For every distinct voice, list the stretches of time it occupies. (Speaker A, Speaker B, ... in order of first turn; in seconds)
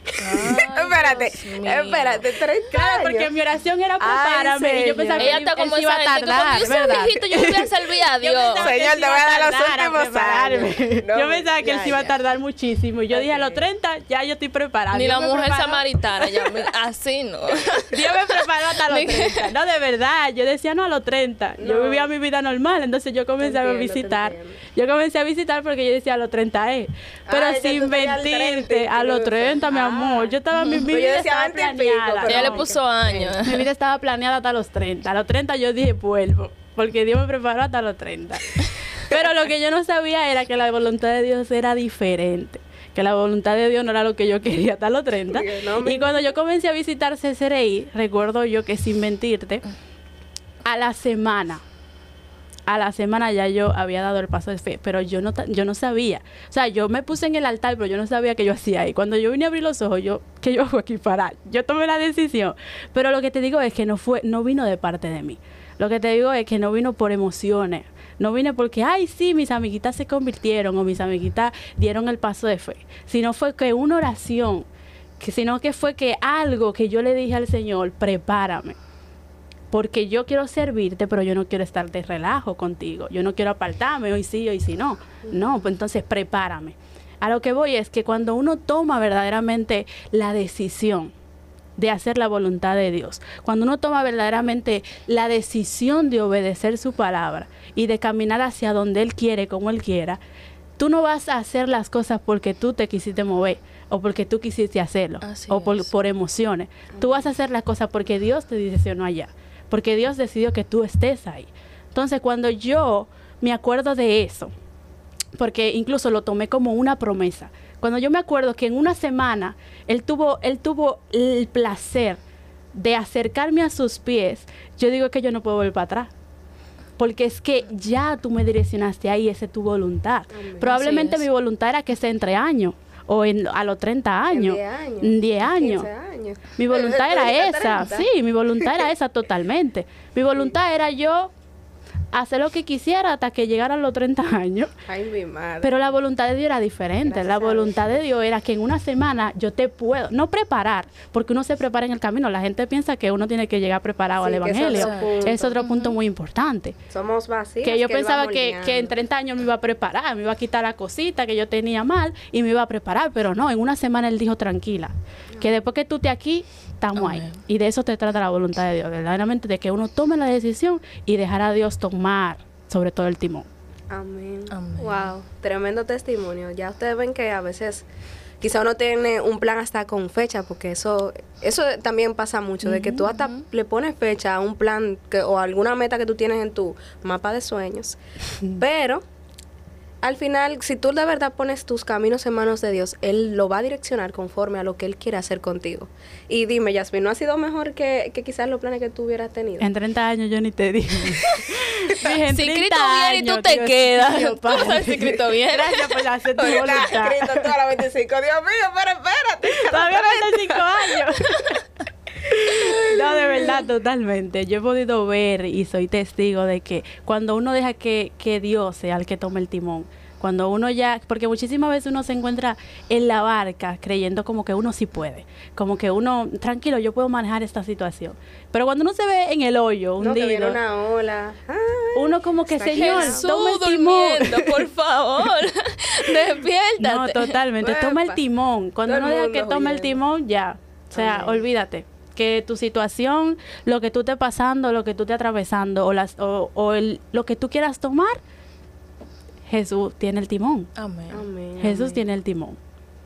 Speaker A: 0.2-2.3, 5.2-8.7, 14.9-19.5, 30.6-30.8, 32.2-33.6, 105.2-105.9, 130.7-131.2, 154.7-155.9, 167.0-167.4, 174.5-175.1, 183.2-183.4, 202.0-206.0, 232.7-237.4, 250.8-251.2
Speaker B: 0.3-3.3, 4.0-5.4, 6.6-7.5, 8.6-12.2, 13.1-13.7, 21.6-22.1, 23.4-24.6, 27.3-33.4, 45.3-46.3, 106.9-107.3, 130.3-130.8, 134.3-138.1, 138.6-138.9, 144.9-145.7, 147.1-148.0, 154.2-155.6, 156.9-158.9, 165.3-165.6, 173.9-177.9, 178.4-188.0, 188.5-189.0, 190.0-199.7, 206.4-210.7, 212.5-213.6, 230.0-233.2, 237.6-238.2, 238.9-240.0, 240.9-241.4, 251.1-252.0
Speaker C: 2.7-16.7, 17.9-32.7, 33.4-49.6, 50.6-51.6, 52.7-74.7, 75.2-78.8, 79.7-91.1, 91.8-100.2, 100.8-114.5, 115.4-122.2, 122.7-126.1, 127.0-135.9, 136.6-141.3, 142.1-144.7, 145.6-156.8, 157.6-173.5, 182.7-183.0, 199.6-207.5, 209.5-211.6, 212.2-230.6, 231.9-234.7, 236.8-248.2, 249.5-250.7, 251.6-252.6